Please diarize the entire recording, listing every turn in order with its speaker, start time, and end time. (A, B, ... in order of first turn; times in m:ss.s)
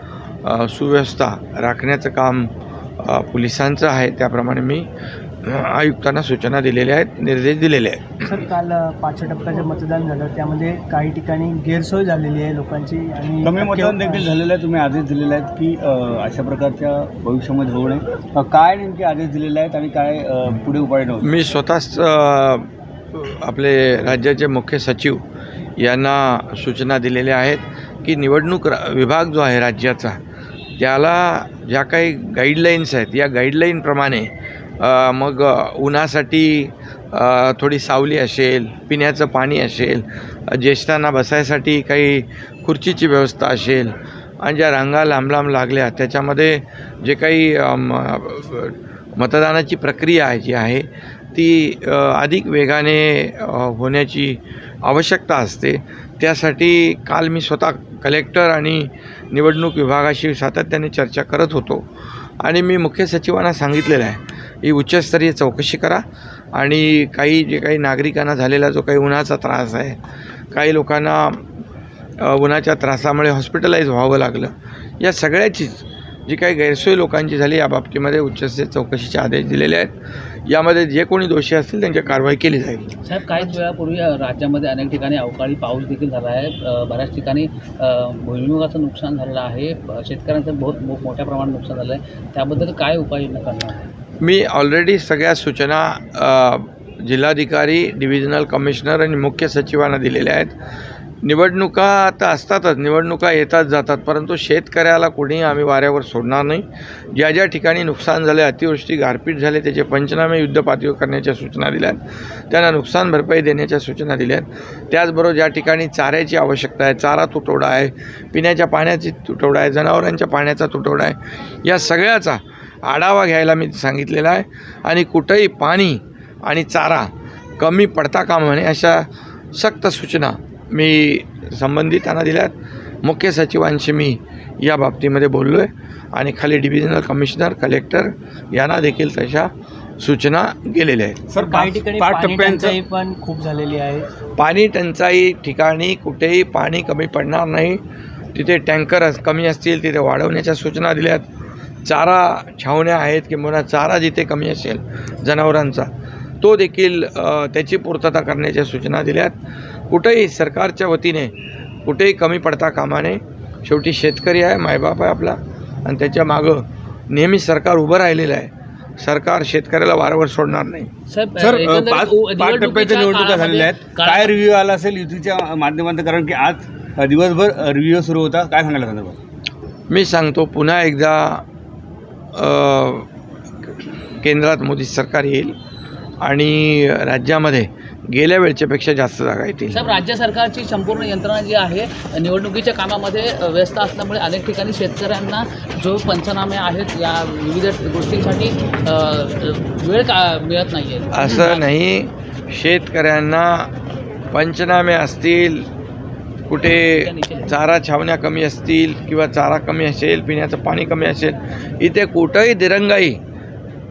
0:00.4-0:04.9 A
0:05.4-0:08.4 A
0:08.2-0:14.3 B
0:13.4-0:21.3 C
0:21.2-0:25.2 A
0:25.8-0:30.2 A
0:30.8-1:01.9 A
1:02.4-1:10.0 A
1:10.5-1:11.4 A
1:12.2-1:19.9 A
1:20.4-1:23.0 A
1:23.0-1:33.8 D
1:34.2-1:40.6 A
1:41.2-2:21.2 A
2:21.3-2:22.8 C
2:21.4-2:24.0 B
2:24.4-2:27.8 A
2:28.3-2:31.3 A
2:31.8-2:35.9 A
2:36.4-2:39.4 A
2:39.9-2:41.3 A
2:41.8-2:50.9 A
2:51.1-2:54.4 D
2:51.4-2:59.2 C
2:59.9-3:01.4 A
3:02.3-3:03.1 A
3:03.7-3:05.6 A
3:06.2-3:09.9 A
3:09.7-3:21.7 D
3:21.1-3:23.7 A
3:24.3-3:25.7 A
3:26.5-3:33.2 A
3:26.9-3:27.5 D